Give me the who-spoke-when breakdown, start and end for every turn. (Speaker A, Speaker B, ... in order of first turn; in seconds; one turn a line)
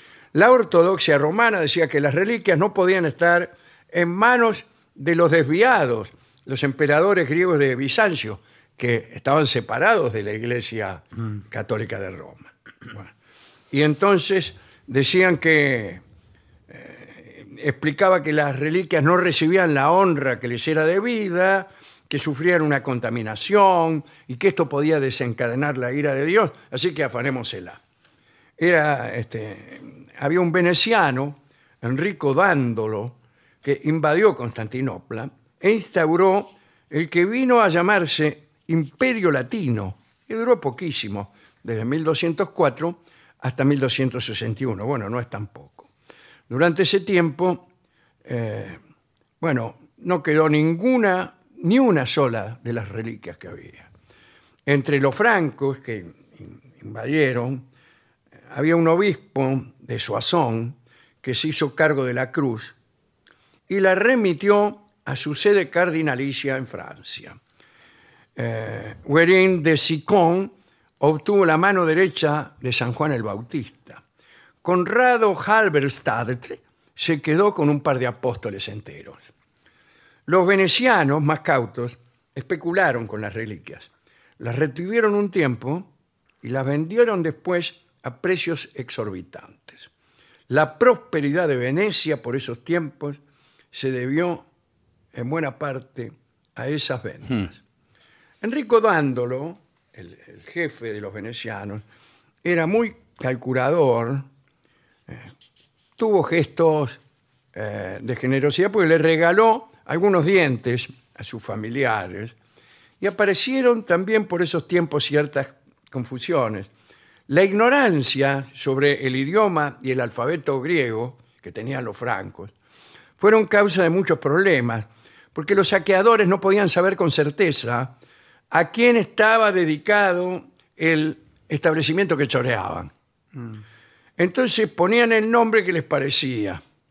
Speaker A: 0.3-13.1
Speaker A: 13.7-16.0
Speaker A: 16.7-27.8
Speaker A: 28.6-45.9
Speaker A: 46.5-47.6
Speaker A: 48.2-48.8
Speaker A: 49.4-53.9
Speaker A: 54.7-57.6
Speaker A: 58.5-62.8
Speaker A: 63.7-67.4
Speaker A: 68.4-74.0
Speaker A: 74.6-79.3
Speaker A: 80.3-85.9
Speaker A: 86.4-89.9
Speaker A: 90.5-93.2
Speaker A: 93.7-94.5
Speaker A: 95.1-97.6
Speaker A: 98.4-101.8
Speaker A: 102.4-104.3
Speaker A: 106.0-107.0
Speaker A: 107.5-112.3
Speaker A: 113.0-116.7
Speaker A: 117.3-122.5
Speaker A: 123.2-127.9
Speaker A: 128.5-132.9
Speaker A: 134.2-136.6